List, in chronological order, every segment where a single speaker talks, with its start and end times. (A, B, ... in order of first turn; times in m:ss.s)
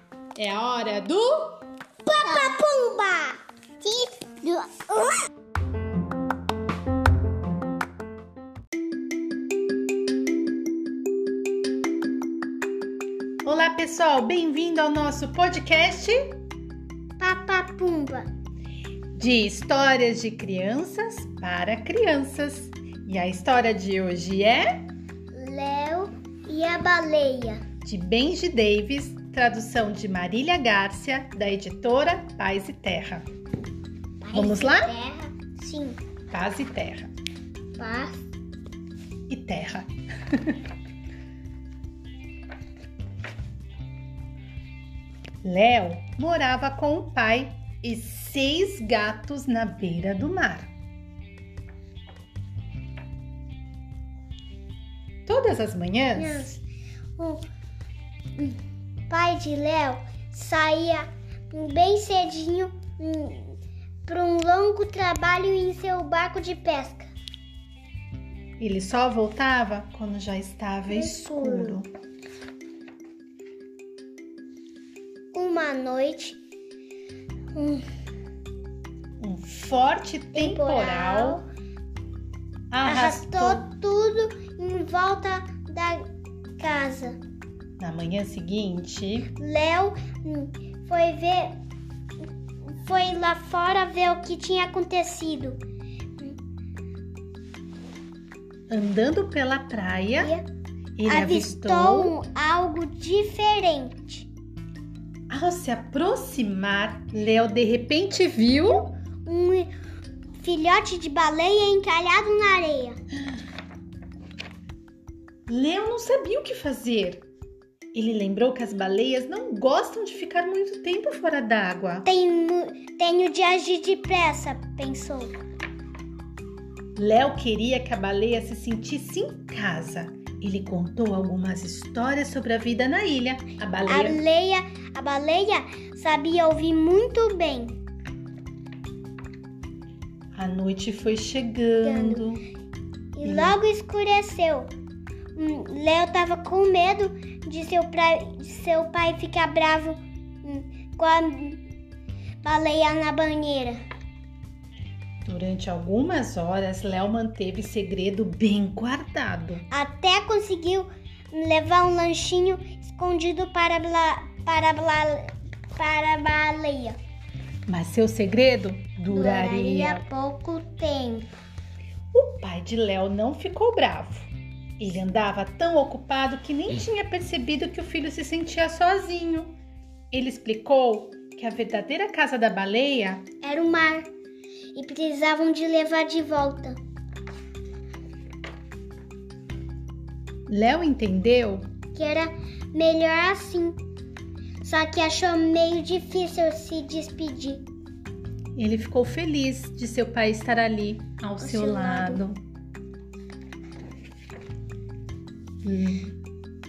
0:00.3-0:01.6 A
0:02.0-0:05.2 B
0:13.4-0:16.4 A
0:17.2-0:18.3 B
0:19.2-0:24.8 A
0:25.3-0:27.6 B
0:27.8-0:33.2 A
0:34.2-0:36.0 B
0:34.3-0:34.9 A
0:36.3-0:37.1 A
0:37.8-0:38.2 B
0:39.3-0:40.6 A
0:45.4-0:50.7 A
0:55.2-0:56.4 A
0:56.2-0:56.6 B
0:57.2-0:57.4 B
0:59.1-1:07.1 B
1:08.6-1:11.9 A
1:10.9-1:11.8 B
1:15.3-1:16.4 B
1:17.5-1:17.8 B
1:19.2-1:21.4 A
1:20.3-1:21.4 B
1:22.7-1:23.6 A
1:22.8-1:26.1 B
1:26.6-1:27.2 B
1:27.8-1:29.3 A
1:29.3-1:31.5 B
1:32.6-1:35.6 B
1:38.7-1:40.3 A
1:40.2-1:40.4 B
1:41.0-1:42.1 A
1:41.0-1:44.3 B
1:45.3-1:48.9 A
1:49.2-1:49.7 B
1:50.4-1:53.0 B
1:55.5-1:57.2 A
1:57.9-2:02.0 A
2:02.0-2:05.3 B
2:07.0-2:14.2 A
2:13.8-2:17.8 B
2:20.3-2:22.4 A
2:21.8-2:22.2 B
2:23.1-2:24.7 B
2:23.2-2:23.6 A
2:25.3-2:31.6 B
2:32.4-2:33.8 B
2:35.2-2:39.6 A
2:39.7-2:47.0 B
2:47.7-2:50.0 A
2:49.1-2:51.3 B
2:52.1-2:59.5 A
3:00.1-3:03.2 A
3:03.4-3:04.1 B
3:04.7-3:06.8 B
3:10.5-3:11.7 A
3:11.9-3:13.8 B
3:14.6-3:17.6 B
3:18.6-3:22.4 A
3:21.4-3:22.2 B
3:25.6-3:26.1 A